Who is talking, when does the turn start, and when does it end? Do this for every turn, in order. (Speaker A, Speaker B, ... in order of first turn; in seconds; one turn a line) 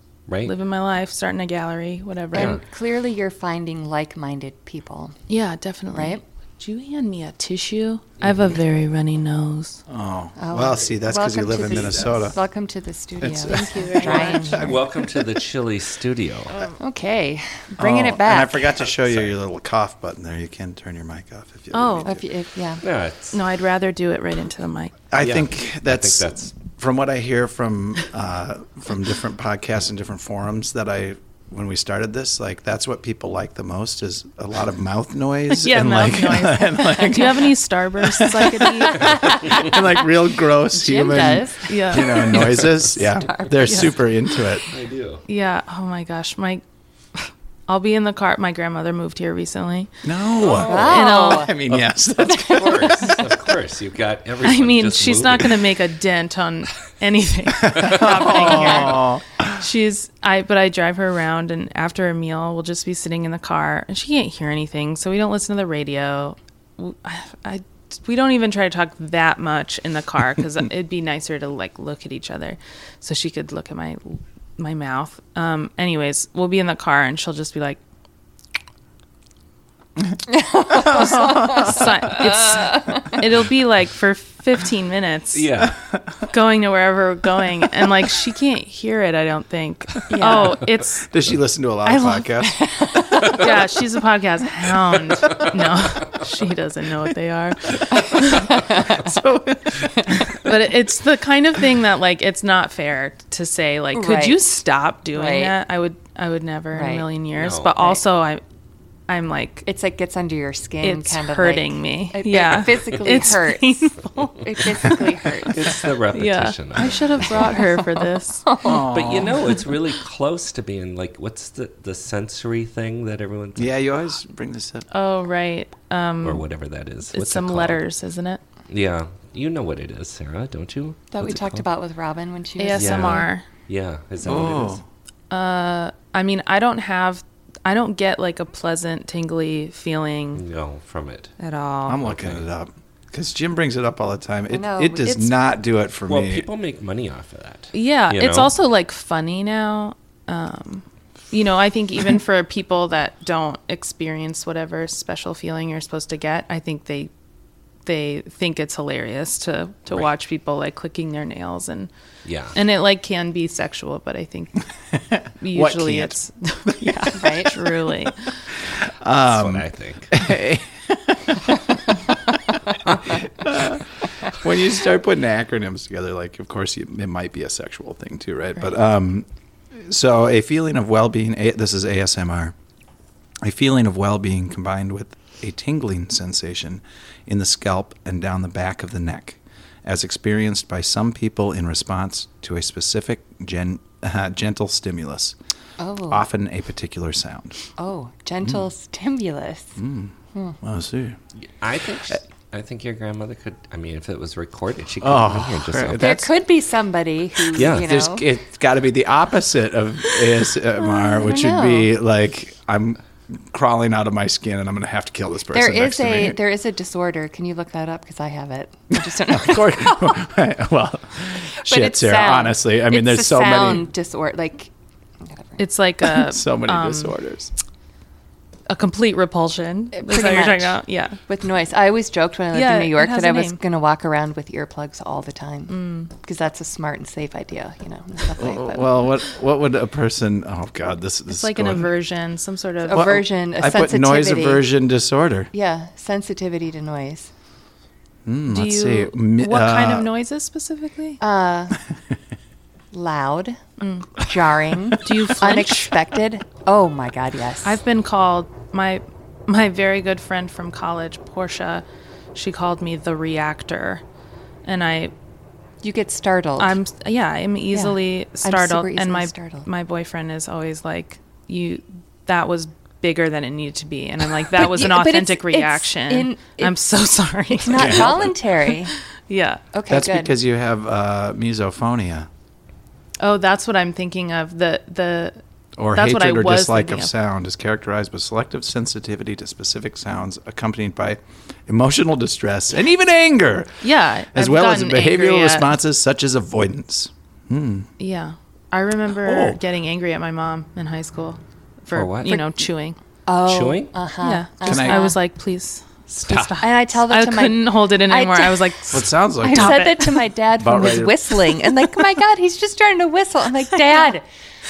Speaker A: 0.3-0.5
Speaker B: 0.4-2.6
Speaker C: 2.3-5.2
Speaker A: 2.3-2.6
Speaker B: 5.3-9.8
Speaker C: 5.9-6.2
Speaker A: 8.2-8.5
Speaker D: 9.9-12.4
Speaker C: 10.4-14.8
Speaker D: 13.2-15.0
Speaker B: 13.5-14.6
Speaker A: 14.5-16.6
Speaker C: 16.8-18.9
Speaker D: 17.8-22.2
Speaker A: 19.1-19.4
Speaker B: 21.7-22.1
Speaker C: 22.1-22.8
Speaker A: 22.8-23.4
Speaker B: 23.3-24.9
Speaker D: 25.1-44.7
Speaker A: 25.2-26.5
Speaker B: 35.5-39.1
Speaker C: 38.9-40.1
Speaker C: 40.7-44.0
Speaker B: 41.7-42.5
Speaker A: 44.7-45.2
Speaker B: 45.3-46.6
Speaker B: 47.1-49.9
Speaker D: 50.0-53.2
Speaker A: 50.4-51.0
Speaker B: 50.5-51.5
Speaker C: 50.5-51.5
Speaker A: 51.7-55.6
Speaker C: 52.3-53.2
Speaker B: 54.4-77.8
Speaker D: 57.6-59.6
Speaker C: 58.2-59.0
Speaker D: 80.0-82.2
Speaker C: 80.3-83.2
Speaker B: 80.8-85.5
Speaker A: 85.3-85.8
Speaker D: 85.6-86.2
Speaker B: 86.3-91.1
Speaker C: 90.1-90.6
Speaker D: 91.1-92.7
Speaker B: 91.8-92.3
Speaker C: 92.6-93.3
Speaker B: 93.1-98.6
Speaker C: 97.9-99.1
Speaker D: 98.6-100.5
Speaker B: 100.3-108.4
Speaker C: 103.9-104.5
Speaker C: 105.1-105.5
Speaker C: 106.7-107.1
Speaker A: 107.4-107.9
Speaker B: 109.1-109.7
Speaker C: 109.7-115.8
Speaker B: 110.8-118.6
Speaker A: 115.5-117.5
Speaker C: 117.2-118.9
Speaker D: 118.6-119.5
Speaker A: 118.7-123.7
Speaker D: 123.6-124.9
Speaker B: 124.9-126.5
Speaker A: 126.2-127.8
Speaker B: 127.1-128.4
Speaker A: 128.7-131.7
Speaker C: 131.1-133.3
Speaker B: 132.6-133.5
Speaker A: 132.8-134.8
Speaker D: 134.2-134.8
Speaker B: 135.3-140.4
Speaker A: 140.3-141.3
Speaker B: 141.4-142.0
Speaker D: 141.9-146.5
Speaker A: 142.0-142.4
Speaker C: 144.5-145.3
Speaker A: 146.1-148.5
Speaker B: 147.7-157.1
Speaker B: 157.8-161.9
Speaker A: 162.2-162.6
Speaker B: 162.5-164.6
Speaker D: 165.0-166.2
Speaker B: 165.4-168.3
Speaker D: 166.7-167.1
Speaker C: 167.1-167.5
Speaker D: 168.7-179.3
Speaker A: 169.2-170.3
Speaker D: 179.8-182.5
Speaker D: 183.4-195.3
Speaker C: 195.8-196.2
Speaker D: 196.1-197.6
Speaker C: 197.8-199.8
Speaker D: 199.8-201.2
Speaker A: 201.5-206.2
Speaker D: 205.0-206.3
Speaker C: 206.0-208.3
Speaker A: 207.5-207.9
Speaker D: 207.7-216.4
Speaker C: 211.0-211.9
Speaker C: 215.5-220.2
Speaker D: 219.1-223.9
Speaker C: 221.6-224.7
Speaker C: 225.2-225.6
Speaker B: 225.6-227.2
Speaker D: 226.1-227.5
Speaker B: 228.7-231.2
Speaker C: 229.9-239.1
Speaker B: 232.5-233.6
Speaker B: 235.7-236.1
Speaker D: 238.4-241.9
Speaker B: 241.3-243.2
Speaker C: 242.8-244.7
Speaker D: 242.9-245.5
Speaker C: 245.5-247.3
Speaker D: 248.3-250.1
Speaker B: 248.5-251.2
Speaker C: 251.2-251.8
Speaker C: 252.9-253.6
Speaker B: 253.8-254.3
Speaker C: 254.2-257.8
Speaker B: 255.0-256.0
Speaker B: 257.6-264.0
Speaker B: 264.7-265.1
Speaker C: 265.8-266.8
Speaker B: 266.6-278.8
Speaker C: 267.7-269.7
Speaker C: 274.5-276.8
Speaker C: 277.6-278.9
Speaker D: 277.7-278.3
Speaker B: 279.3-279.6
Speaker C: 279.7-280.3
Speaker D: 279.9-282.3
Speaker B: 283.2-285.4
Speaker D: 285.8-293.8
Speaker B: 285.9-287.1
Speaker B: 293.8-295.7
Speaker D: 294.3-297.9
Speaker B: 298.0-303.0
Speaker D: 299.2-299.6
Speaker A: 301.9-302.4
Speaker C: 303.3-305.2
Speaker A: 303.4-303.9
Speaker B: 304.2-310.3
Speaker D: 304.6-305.1
Speaker A: 306.2-306.6
Speaker C: 306.6-308.8
Speaker D: 308.9-310.0
Speaker C: 309.4-314.2
Speaker D: 310.6-311.6